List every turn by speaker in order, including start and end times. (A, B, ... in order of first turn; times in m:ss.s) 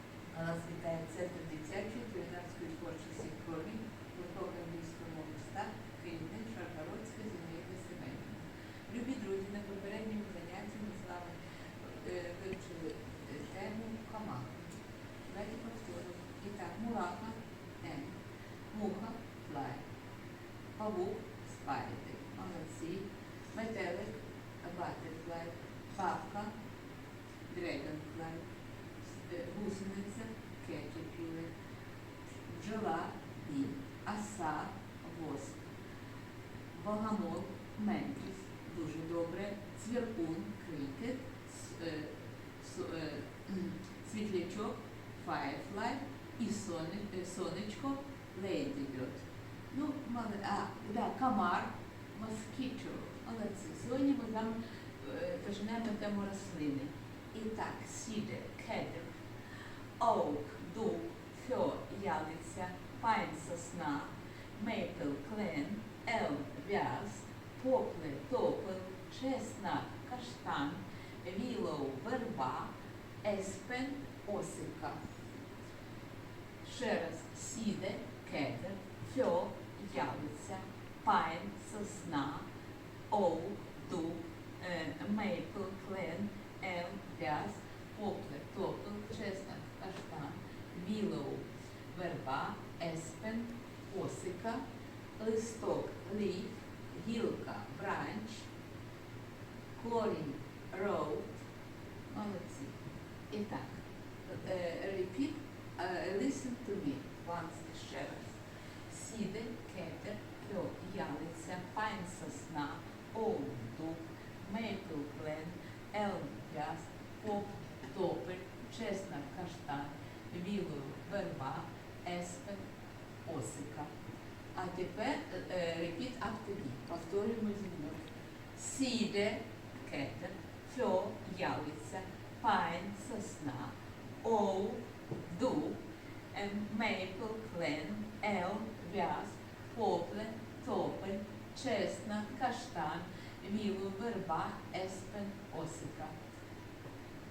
0:00.3-0:14.6 A
0:15.3-0:18.1 A
0:18.7-0:19.8 A
0:20.8-0:26.5 A
0:27.5-0:28.4 A
0:29.2-0:31.5 A
0:32.4-0:35.6 A
0:36.7-0:59.2 A
1:00.0-1:12.7 A
1:13.2-1:15.0 A
1:16.6-1:22.5 A
1:23.1-1:34.6 A
1:35.2-1:38.5 A
1:39.8-1:41.4 A
1:42.1-1:42.7 A
1:43.3-1:48.4 A
1:48.9-2:02.6 A
2:03.2-2:03.9 A
2:04.5-2:08.0 A
2:08.5-2:15.8 A
2:16.3-2:26.1 A